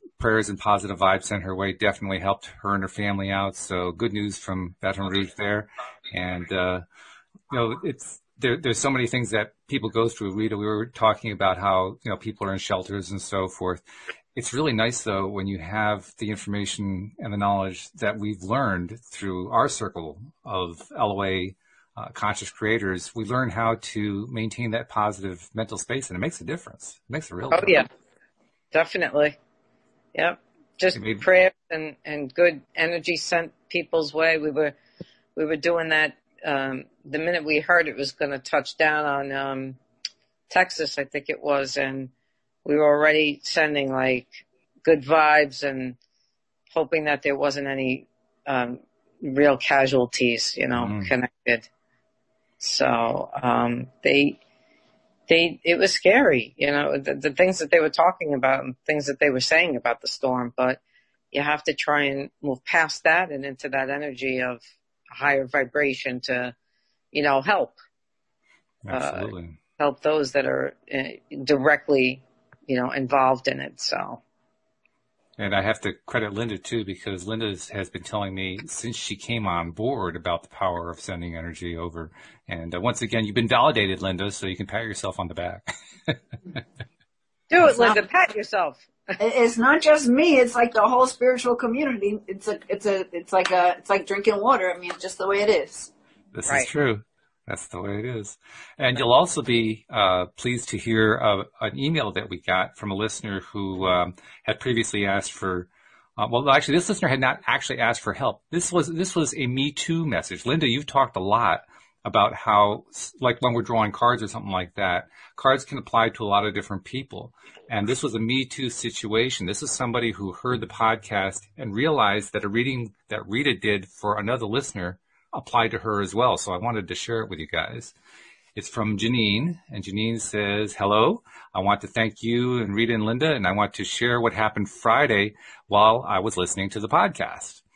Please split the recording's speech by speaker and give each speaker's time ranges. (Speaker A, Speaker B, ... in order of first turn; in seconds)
Speaker A: 0.2-6.8, 7.5-13.8, 14.3-27.8, 30.9-31.2, 50.8-51.1, 68.8-69.6, 75.4-86.2, 96.3-127.9, 128.6-137.6
Speaker B: 27.5-27.9, 28.7-29.4, 30.1-34.8, 35.4-39.8, 40.5-42.1, 42.6-46.0, 46.7-51.7, 52.6-54.4, 55.3-60.8, 61.3-64.6, 65.1-66.5, 67.1-67.8, 68.9-74.2, 87.5-89.1
Speaker C: 89.2-95.9